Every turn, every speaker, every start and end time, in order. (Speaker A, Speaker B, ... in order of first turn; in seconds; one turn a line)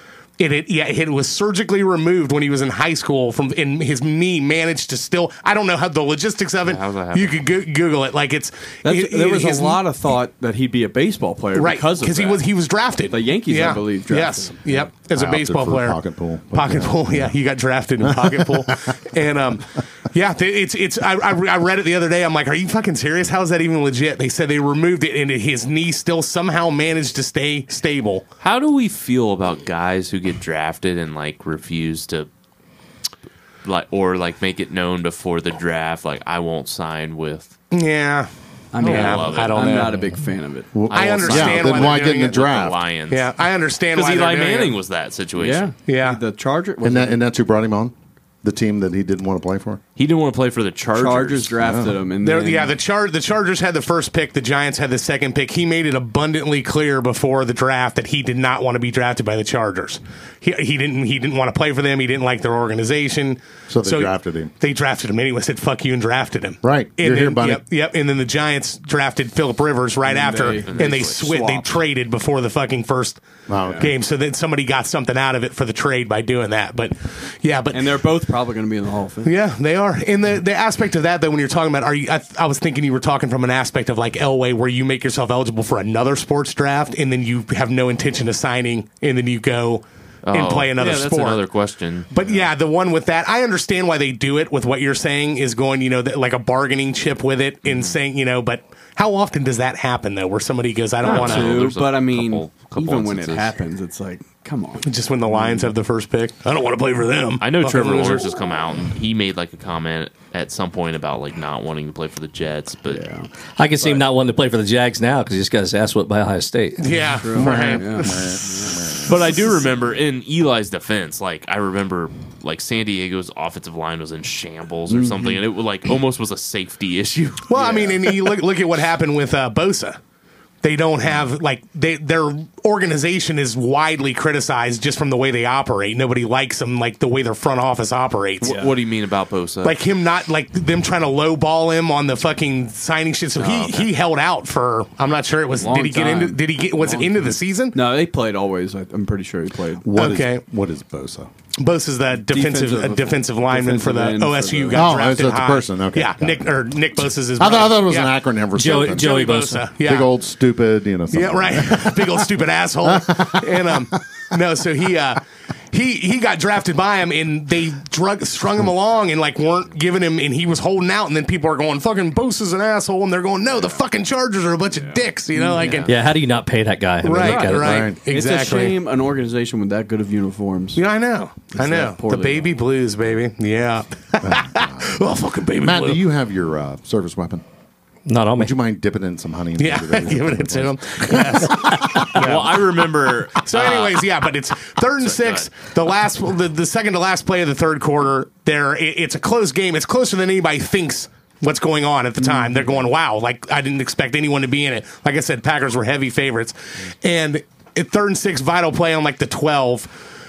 Speaker A: 0.4-9.8
Speaker B: 6.6-7.4
Speaker C: 8.8-12.5
Speaker A: 11.6-16.0
Speaker C: 13.1-14.8
Speaker D: 15.1-17.4
Speaker A: 16.5-28.2
Speaker D: 18.0-18.7
Speaker B: 28.4-32.3
Speaker B: 33.6-37.5
Speaker A: 37.7-40.0
Speaker C: 38.7-41.5
Speaker B: 38.8-39.9
Speaker D: 40.7-42.8
Speaker B: 40.9-43.3
Speaker A: 40.9-42.4
Speaker A: 43.1-44.8
Speaker B: 43.9-45.7
Speaker C: 45.4-47.2
Speaker A: 45.9-46.2
Speaker D: 46.8-49.8
Speaker B: 50.0-51.6
Speaker C: 50.9-52.7
Speaker D: 51.6-51.9
Speaker A: 52.2-73.2
Speaker D: 63.7-64.5
Speaker D: 66.6-67.6
Speaker C: 70.0-71.8
Speaker B: 70.6-71.2
Speaker D: 73.5-73.9
Speaker C: 73.6-73.9
Speaker A: 73.8-77.8
Speaker C: 77.7-79.3
Speaker A: 79.2-91.4
Speaker B: 90.2-92.5
Speaker A: 92.1-101.7
Speaker B: 97.7-98.0
Speaker C: 101.0-105.7
Speaker B: 101.0-103.5
Speaker A: 104.8-108.3
Speaker B: 107.4-113.0
Speaker C: 112.9-113.3
Speaker E: 113.6-117.0
Speaker A: 116.8-118.3
Speaker C: 117.2-118.8
Speaker D: 117.3-119.2
Speaker B: 119.0-128.0
Speaker C: 124.9-125.4
Speaker A: 127.5-130.0
Speaker C: 127.5-128.0
Speaker A: 130.6-138.6
Speaker B: 138.4-139.8
Speaker C: 138.4-138.7
Speaker A: 139.6-147.8
Speaker B: 143.4-143.9
Speaker C: 145.6-149.9
Speaker D: 149.8-151.3
Speaker A: 149.9-150.4
Speaker A: 151.6-160.1
Speaker C: 152.2-155.0
Speaker D: 154.7-156.5
Speaker D: 157.4-159.2
Speaker E: 158.5-159.7
Speaker D: 159.8-162.3
Speaker A: 161.1-175.9
Speaker D: 162.8-163.9
Speaker C: 174.8-175.7
Speaker B: 175.6-175.9
Speaker E: 175.9-177.8
Speaker A: 177.0-178.8
Speaker C: 177.1-180.8
Speaker D: 177.5-178.0
Speaker A: 180.7-186.0
Speaker C: 181.5-182.5
Speaker D: 184.2-185.1
Speaker D: 185.6-187.4
Speaker E: 188.1-188.5
Speaker D: 188.4-192.2
Speaker A: 189.6-192.6
Speaker B: 191.9-194.1
Speaker A: 193.4-209.9
Speaker B: 195.0-195.5
Speaker C: 202.2-202.8